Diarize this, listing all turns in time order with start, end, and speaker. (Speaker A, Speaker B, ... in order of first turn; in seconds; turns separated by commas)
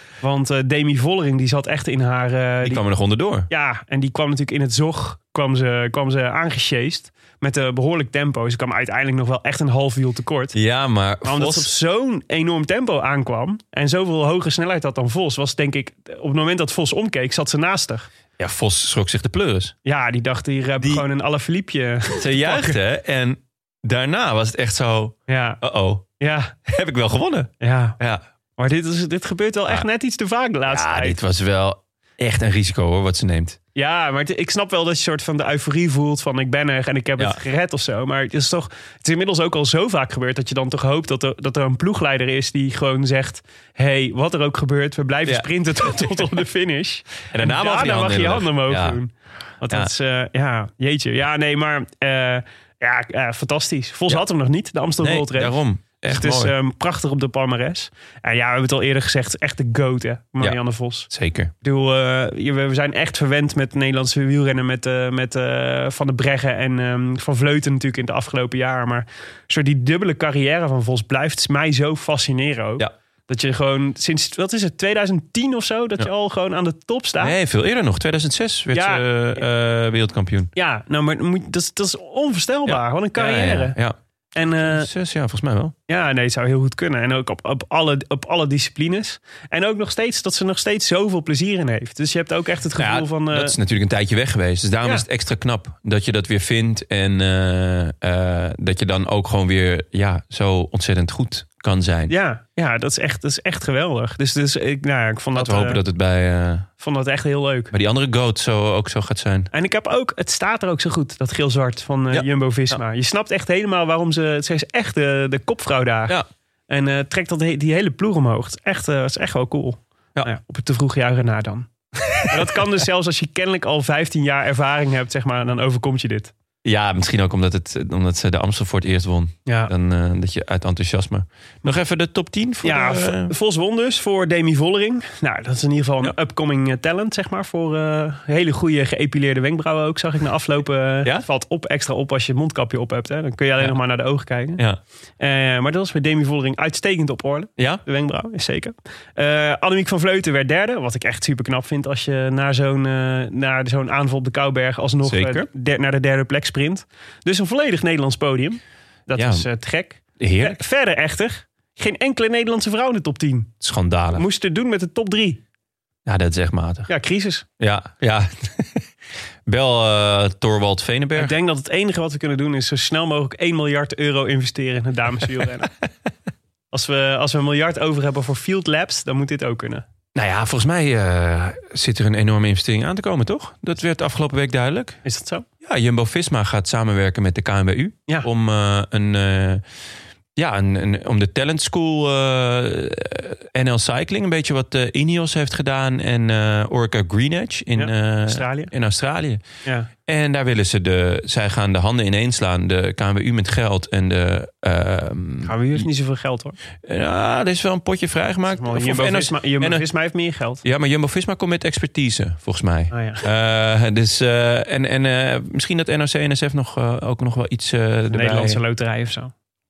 Speaker A: 0.2-2.8, Speaker B: 2.6-3.5, Speaker A: 3.5-10.6, Speaker B: 10.5-11.7, Speaker A: 11.2-18.1, Speaker B: 18.4-19.7, Speaker A: 19.8-22.8, Speaker B: 20.8-21.0, Speaker B: 22.2-26.1, Speaker A: 25.3-25.6, Speaker A: 26.2-26.5, Speaker B: 26.6-28.2, Speaker A: 27.6-28.0, Speaker A: 28.6-31.2, Speaker B: 30.7-33.6, Speaker A: 33.7-61.1, Speaker B: 45.2-46.2, Speaker B: 47.3-49.0, Speaker B: 49.7-49.9, Speaker B: 55.0-56.5, Speaker B: 61.1-61.5, Speaker A: 61.6-77.4, Speaker B: 77.2-80.5, Speaker A: 78.7-79.4, Speaker A: 80.5-83.8, Speaker B: 82.7-85.7, Speaker A: 84.3-84.9, Speaker A: 85.9-93.5, Speaker B: 92.7-102.1, Speaker A: 102.1-105.8, Speaker B: 105.3-106.7, Speaker A: 106.8-107.7, Speaker B: 107.7-109.5, Speaker A: 109.5-126.3, Speaker B: 112.1-112.7, Speaker B: 122.1-122.4, Speaker B: 126.6-133.3, Speaker A: 129.4-129.7, Speaker A: 132.6-144.6, Speaker A: 145.2-163.5, Speaker B: 147.6-147.8, Speaker B: 155.0-155.5, Speaker B: 159.1-159.5, Speaker B: 160.2-160.6, Speaker B: 163.6-164.2, Speaker A: 164.1-165.4, Speaker B: 166.1-166.9, Speaker A: 166.9-167.4, Speaker B: 167.6-168.8, Speaker B: 169.4-171.4, Speaker A: 171.2-175.7, Speaker A: 176.7-179.8, Speaker B: 180.1-185.0, Speaker A: 185.0-185.4, Speaker B: 185.6-189.6, Speaker B: 190.3-199.4, Speaker A: 197.7-198.7, Speaker B: 200.1-205.8, Speaker A: 205.4-206.6, Speaker B: 206.8-209.8, Speaker A: 208.5-210.6, Speaker B: 210.6-218.6, Speaker A: 212.9-213.2, Speaker A: 218.1-219.3